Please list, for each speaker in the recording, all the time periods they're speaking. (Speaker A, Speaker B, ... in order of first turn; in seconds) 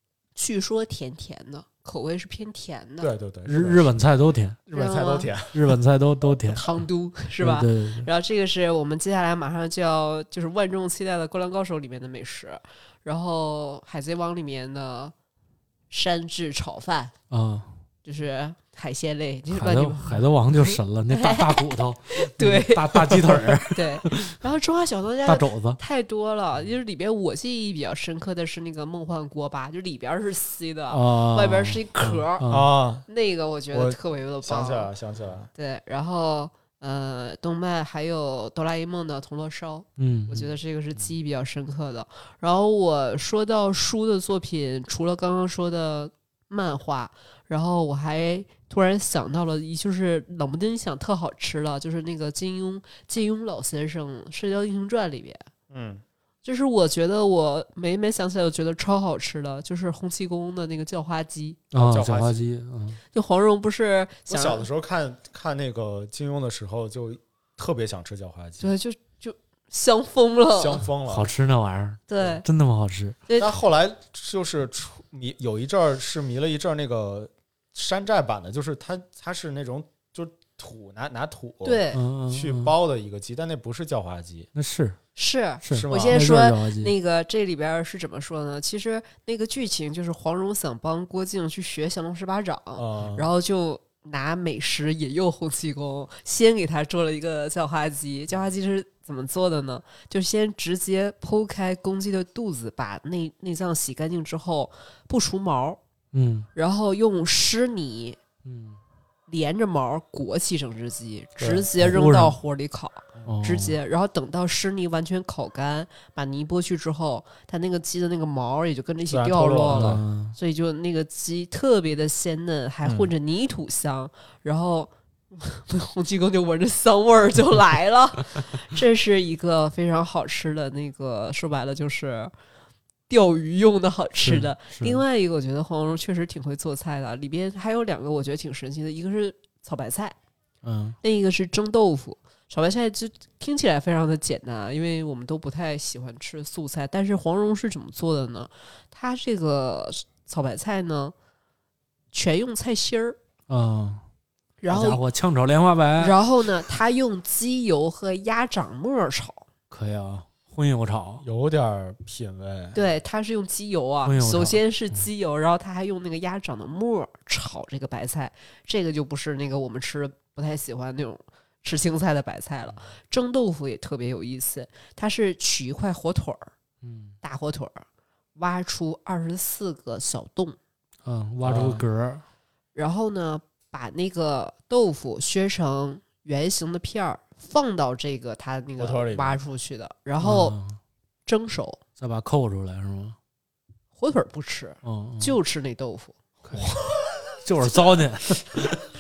Speaker A: 0.4-3.1, 4.7-5.3, 6.5-15.1, 15.9-17.1, 18.1-32.5, 33.1-34.9, 35.5-55.5, 56.4-61.6, 63.1-64.7, 68.6-70.8, 72.1-72.5, 73.3-73.5, 81.6-82.0, 85.2-105.8, 106.5-108.2, 109.3-132.3, 133.1-140.2, 141.0-151.1, 152.1-153.2, 154.6-155.0, 156.0-159.4, 162.7-176.5, 177.2-177.8, 178.4-180.6, 182.7-190.6, 191.3-191.8, 193.9-196.2
Speaker B: 3.0-3.9, 4.7-5.7, 32.5-33.0, 33.7-35.5, 55.7-56.0, 61.7-62.5, 64.3-68.7, 70.5-71.3, 73.4-84.5, 85.7-86.3, 92.8-93.2, 111.4-111.7, 119.1-120.0, 122.8-123.1, 161.2-162.8, 181.4-181.8, 188.8-189.4
Speaker C: 3.5-4.6, 5.5-6.7, 7.4-8.1, 17.3-17.7, 19.5-24.3, 25.3-25.8, 30.9-32.7, 40.0-40.5, 61.7-63.0, 71.1-73.2, 81.9-82.7, 84.5-85.0, 85.6-86.9, 106.1-106.5, 108.5-108.8, 111.8-112.4, 113.3-113.8, 119.7-120.4, 134.2-135.0, 140.6-141.0, 153.5-154.0, 154.7-156.2, 159.7-161.2, 164.1-165.0, 176.8-177.2, 181.1-182.2, 190.2-190.8, 192.0-193.2, 194.8-195.4, 196.4-196.8, 197.4-198.8